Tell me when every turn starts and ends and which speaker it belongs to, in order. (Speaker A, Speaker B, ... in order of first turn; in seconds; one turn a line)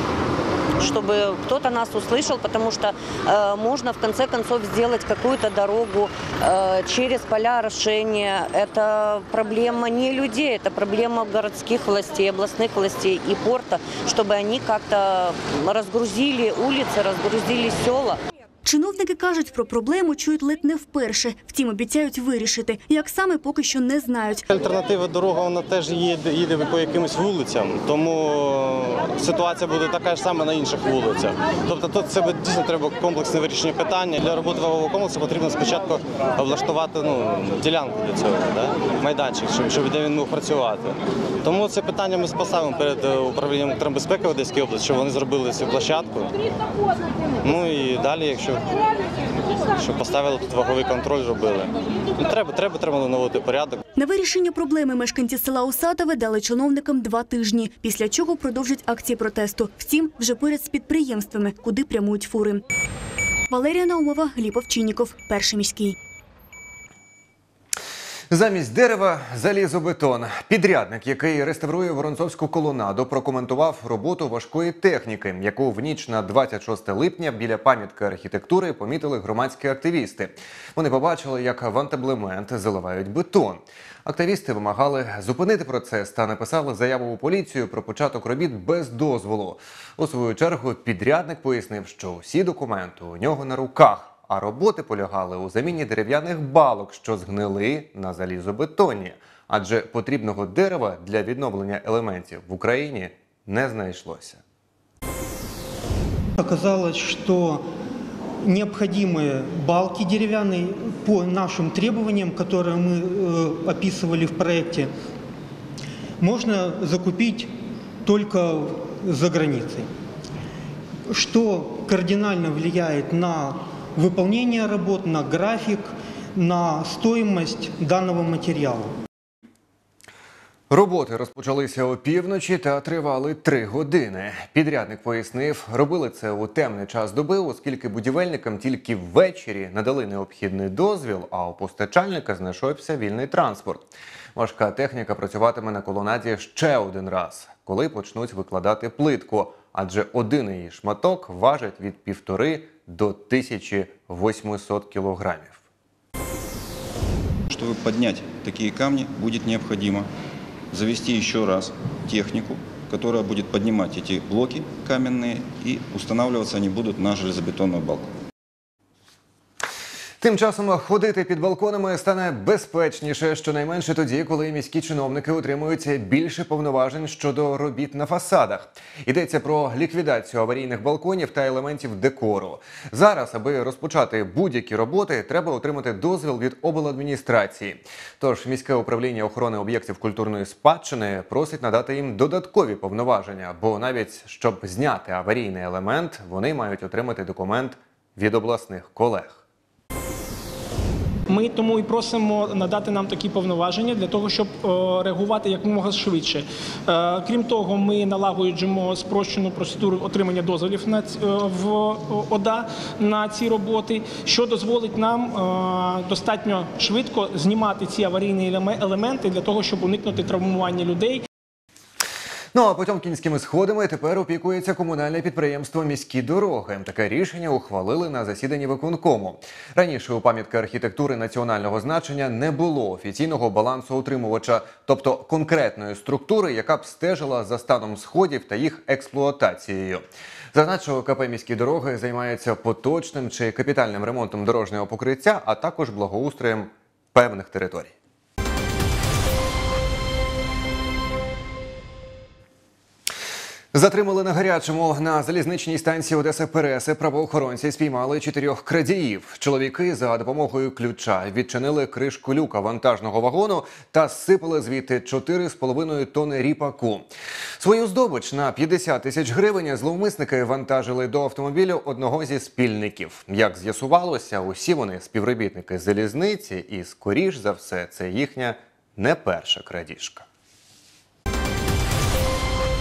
Speaker A: 0.8-18.2
Speaker B: 18.6-24.4
Speaker C: 24.5-46.3
Speaker C: 47.4-48.7
Speaker C: 49.7-53.8
Speaker B: 54.0-62.6
Speaker B: 63.5-66.0
Speaker D: 68.3-104.4
Speaker E: 106.4-107.6
Speaker E: 108.4-114.9
Speaker E: 116.2-117.5
Speaker E: 118.0-119.9
Speaker E: 121.1-128.9
Speaker D: 130.7-155.6
Speaker F: 157.5-160.1
Speaker F: 160.7-168.1
Speaker D: 170.2-199.4
Speaker G: 201.3-221.2
Speaker D: 222.5-247.9
Speaker D: 253.7-267.1
Speaker D: 267.6-280.2